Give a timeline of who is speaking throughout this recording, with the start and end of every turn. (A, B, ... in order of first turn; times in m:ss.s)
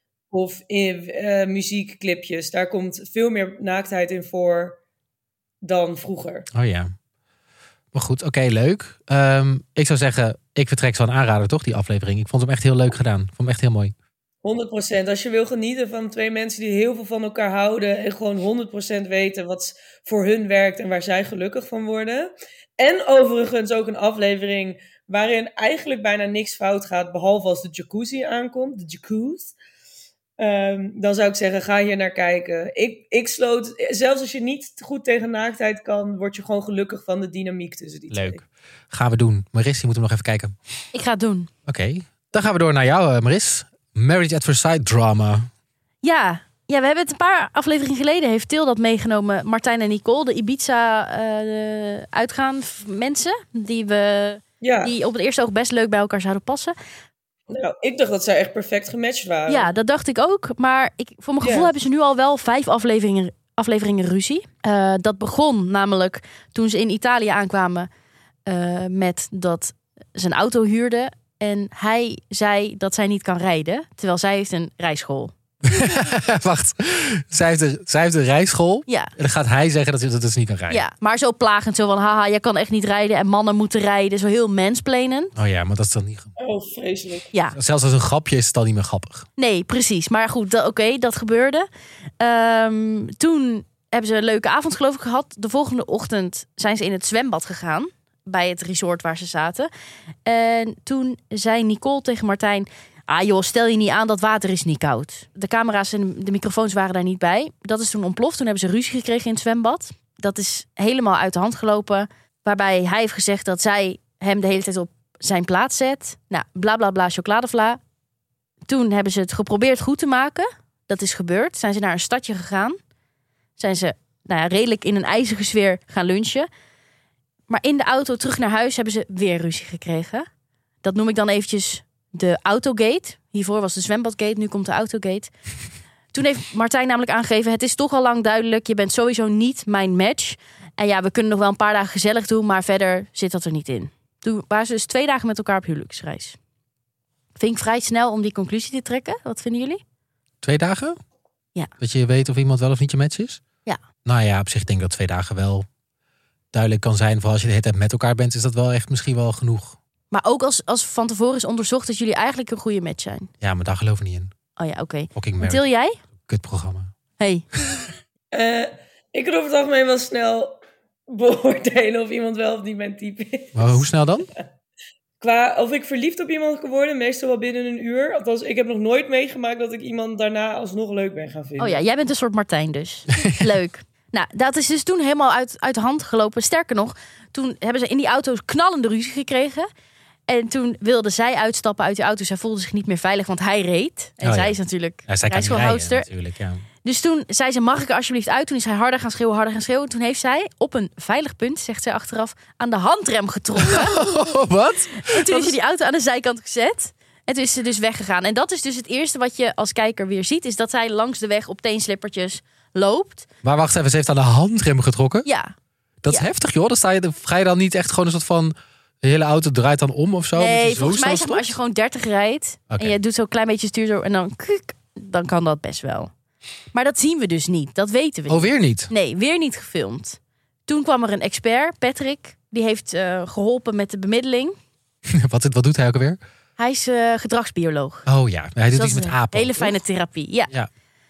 0:00.3-0:04.8 A
0:05.6-0:06.5 A
0:06.5-0:06.9 B
0:07.9-0:13.9 B
0:14.4-0:29.5 A
0:30.4-0:38.4 A
0:38.1-0:40.5 B
0:40.9-0:41.5 C
0:41.6-0:45.5 B
0:46.0-0:56.7 C
0:54.6-0:54.9 A
0:57.5-0:59.7 A
0:59.5-1:07.9 C
1:01.4-1:01.7 A
1:08.4-1:15.3 C
1:15.6-1:20.8 B
1:18.9-1:19.1 C
1:20.7-1:25.3 C
1:25.3-1:26.3 B
1:26.4-1:27.3 A
1:27.5-1:29.3 B
1:29.4-1:31.7 C
1:32.2-1:39.7 C
1:40.2-1:57.8 C
1:58.7-2:02.8 C
2:03.6-2:06.5 C
2:07.5-2:10.3 C
2:10.8-2:15.3 C
2:16.1-2:26.4 C
2:27.4-2:29.8 C
2:30.4-2:31.0 B
2:31.8-2:33.4 B
2:34.0-2:35.7 B
2:36.5-2:39.8 B
2:40.1-2:43.3 C
2:43.4-2:44.3 B
2:44.6-2:46.0 C
2:45.1-2:45.7 B
2:46.2-2:46.9 B
2:47.2-2:47.4 C
2:48.3-2:54.4 A
2:53.5-2:54.3 B
2:55.2-3:01.8 A
3:01.6-3:09.7 C
3:10.3-3:16.1 C
3:14.2-3:16.6 B
3:16.8-3:24.0 C
3:23.6-3:25.6 B
3:25.0-3:33.2 C
3:33.4-3:35.2 B
3:35.2-3:35.5 C
3:36.0-3:41.5 B
3:40.4-3:46.1 C
3:46.7-3:54.5 C
3:48.3-3:48.9 B
3:55.1-3:56.2 B
3:56.6-3:58.0 C
3:58.0-3:59.8 B
3:58.7-4:00.5 C